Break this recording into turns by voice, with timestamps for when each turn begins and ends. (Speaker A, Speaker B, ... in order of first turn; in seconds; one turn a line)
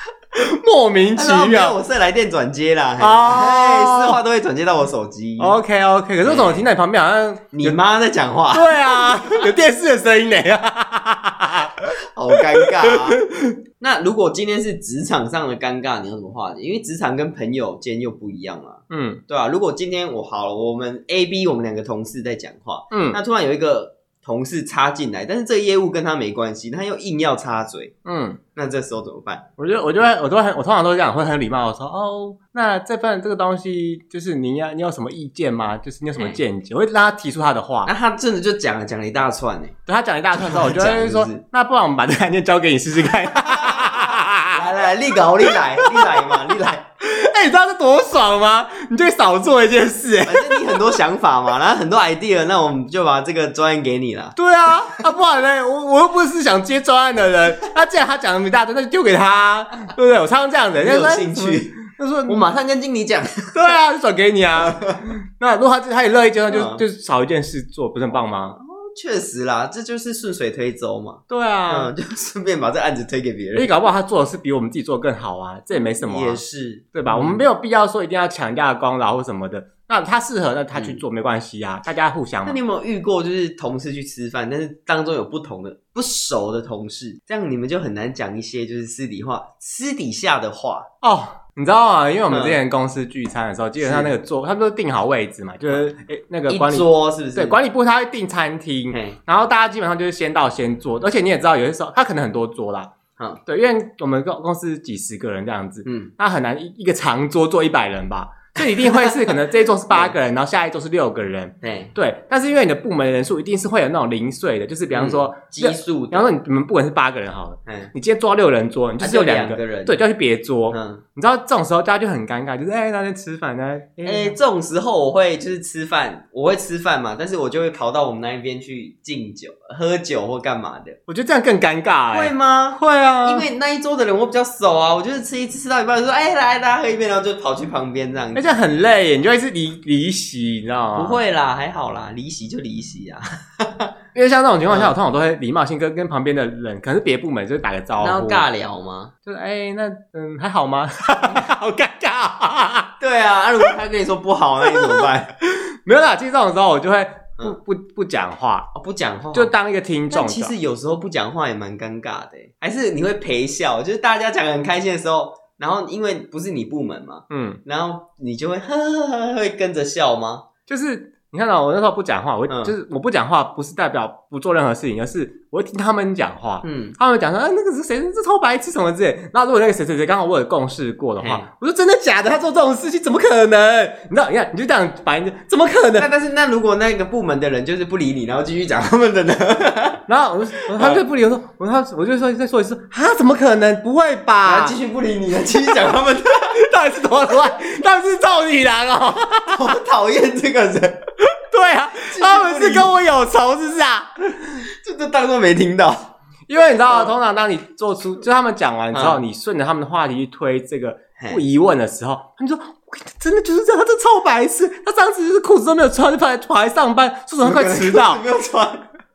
Speaker A: 0.3-1.8
Speaker B: 1.1-5.6
Speaker A: 3.0-4.2
Speaker A: 5.4-7.8
Speaker B: 6.2-6.7
Speaker B: 7.5-9.5
Speaker A: 8.5-13.6
Speaker B: 12.1-13.2
Speaker B: 13.8-27.9
Speaker A: 18.9-19.2
Speaker A: 22.9-23.2
Speaker A: 28.0-28.4
Speaker B: 28.6-29.4
Speaker A: 29.6-37.9
Speaker B: 37.9-39.8
Speaker A: 39.9-44.6
Speaker B: 40.3-41.4
Speaker B: 43.4-46.8
Speaker A: 45.5-46.4
Speaker A: 47.0-50.9
Speaker B: 50.2-54.3
Speaker A: 54.4-62.4
Speaker B: 60.8-63.7
Speaker A: 63.5-68.5
Speaker B: 64.5-65.0
Speaker B: 66.5-66.8
Speaker B: 68.1-73.7
Speaker A: 71.3-71.9
Speaker A: 73.5-76.4
Speaker B: 75.7-77.4
Speaker A: 76.9-82.6
Speaker B: 80.7-81.0
Speaker B: 82.5-90.9
Speaker A: 91.0-102.9
Speaker B: 92.3-92.6
Speaker B: 93.8-94.1
Speaker B: 96.5-97.6
Speaker B: 98.9-99.2
Speaker A: 103.5-124.4
Speaker B: 105.8-106.1
Speaker B: 108.6-109.3
Speaker B: 109.9-110.1
Speaker B: 111.6-111.9
Speaker B: 114.9-116.3
Speaker B: 117.7-117.9
Speaker B: 119.0-120.0
Speaker B: 120.7-121.0
Speaker B: 124.0-131.0
Speaker A: 131.1-133.5
Speaker B: 132.1-138.5
Speaker A: 138.3-141.2
Speaker B: 140.9-143.9
Speaker A: 144.1-148.4
Speaker B: 144.7-144.9
Speaker B: 148.0-149.1
Speaker A: 149.2-152.9
Speaker B: 153.0-155.3
Speaker A: 154.7-158.7
Speaker B: 158.7-159.5
Speaker A: 159.3-160.5
Speaker B: 160.1-170.4
Speaker A: 167.3-167.6
Speaker A: 170.7-186.1
Speaker B: 172.5-172.7
Speaker B: 176.6-177.0
Speaker B: 181.2-181.5
Speaker B: 186.0-190.0
Speaker A: 190.1-194.8
Speaker B: 190.7-191.0
Speaker B: 194.4-196.6
Speaker A: 196.5-199.8
Speaker B: 199.5-201.0
Speaker A: 201.2-204.1
Speaker B: 202.0-202.9
Speaker B: 204.6-206.1
Speaker A: 206.5-218.2
Speaker B: 206.9-207.1
Speaker B: 208.9-209.2
Speaker B: 217.4-218.9